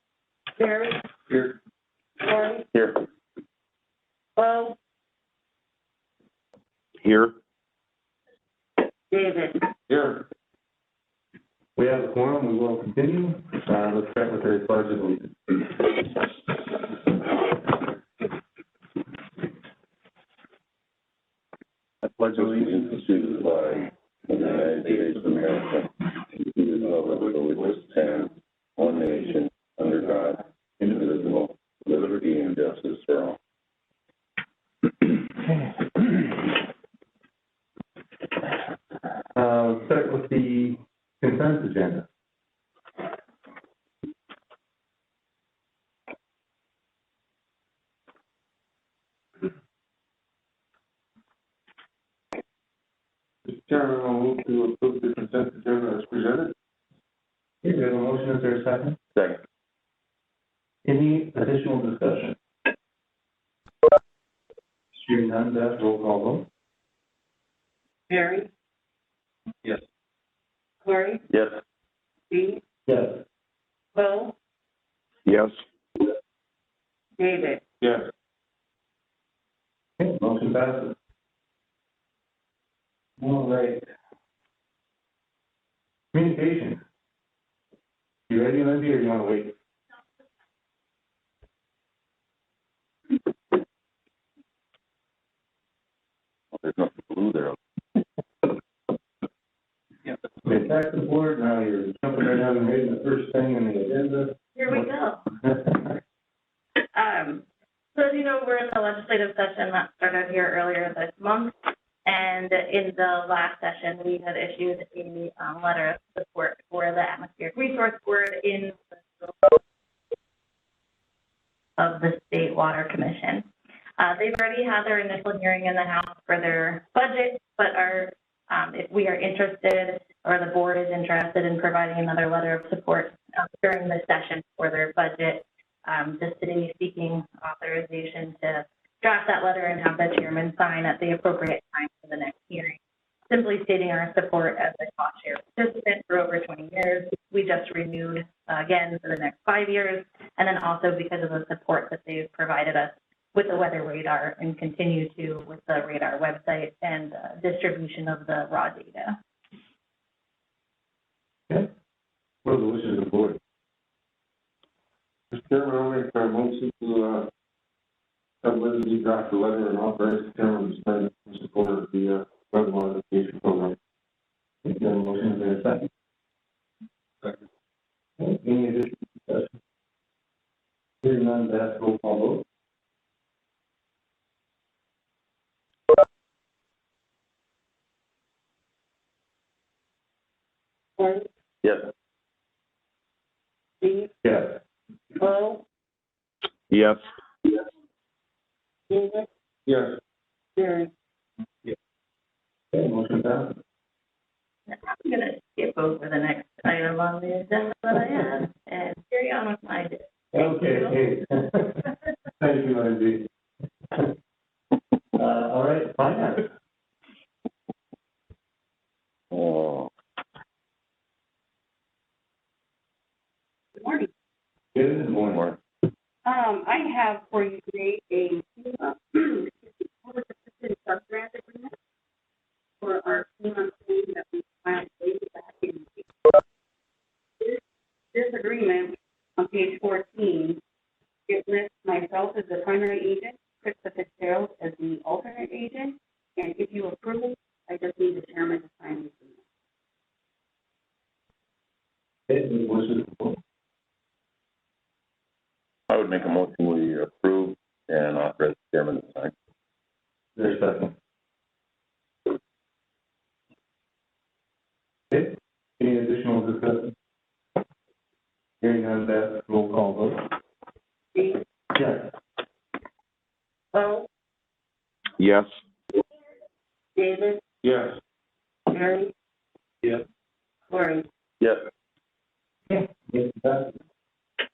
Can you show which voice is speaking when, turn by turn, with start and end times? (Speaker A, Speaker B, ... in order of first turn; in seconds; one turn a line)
Speaker A: 0.6-1.0
Speaker B: 1.3-1.6
Speaker A: 2.2-2.7
Speaker C: 2.7-3.0
Speaker A: 4.4-4.8
Speaker A: 9.1-9.7
Speaker B: 9.9-10.3
Speaker D: 11.8-15.3
Speaker C: 22.3-33.4
Speaker D: 39.4-42.1
Speaker B: 53.5-56.5
Speaker D: 57.6-59.0
Speaker C: 59.1-59.4
Speaker D: 60.8-62.4
Speaker D: 65.0-66.5
Speaker A: 68.1-68.5
Speaker A: 70.8-71.2
Speaker C: 71.3-71.6
Speaker A: 72.3-72.6
Speaker D: 72.9-73.2
Speaker A: 73.9-74.3
Speaker A: 77.2-77.6
Speaker B: 77.8-78.1
Speaker D: 80.0-80.9
Speaker D: 83.2-83.8
Speaker D: 86.1-86.8
Speaker D: 88.3-89.5
Speaker C: 96.5-97.6
Speaker D: 100.4-104.8
Speaker E: 104.5-105.2
Speaker D: 105.4-105.9
Speaker A: 107.0-107.3
Speaker E: 107.0-107.4
Speaker E: 108.0-111.5
Speaker E: 112.0-119.6
Speaker E: 121.8-123.5
Speaker E: 124.0-159.2
Speaker D: 162.4-163.4
Speaker B: 165.3-167.3
Speaker B: 168.4-173.8
Speaker D: 174.7-175.9
Speaker D: 178.2-179.5
Speaker D: 181.0-182.4
Speaker A: 191.0-191.3
Speaker C: 191.6-191.9
Speaker A: 193.8-194.1
Speaker D: 194.2-194.6
Speaker A: 195.2-195.7
Speaker A: 198.9-199.3
Speaker B: 199.7-200.0
Speaker A: 200.6-200.9
Speaker D: 202.7-203.5
Speaker E: 204.7-211.0
Speaker D: 210.3-211.8
Speaker D: 212.4-213.3
Speaker D: 215.2-216.5
Speaker C: 219.3-219.9
Speaker A: 223.8-224.1
Speaker D: 224.7-225.4
Speaker C: 225.3-225.6
Speaker A: 226.2-231.7
Speaker A: 232.8-236.1
Speaker A: 238.1-240.6
Speaker A: 241.3-249.4
Speaker D: 252.3-253.4
Speaker C: 255.9-259.3
Speaker D: 260.4-260.9
Speaker D: 265.1-266.9
Speaker D: 268.6-270.2
Speaker A: 271.1-271.4
Speaker D: 271.8-272.1
Speaker A: 273.7-274.1
Speaker A: 277.0-277.4
Speaker B: 277.6-278.0
Speaker A: 278.7-279.1
Speaker A: 280.7-281.1
Speaker C: 281.4-281.6
Speaker D: 282.7-283.8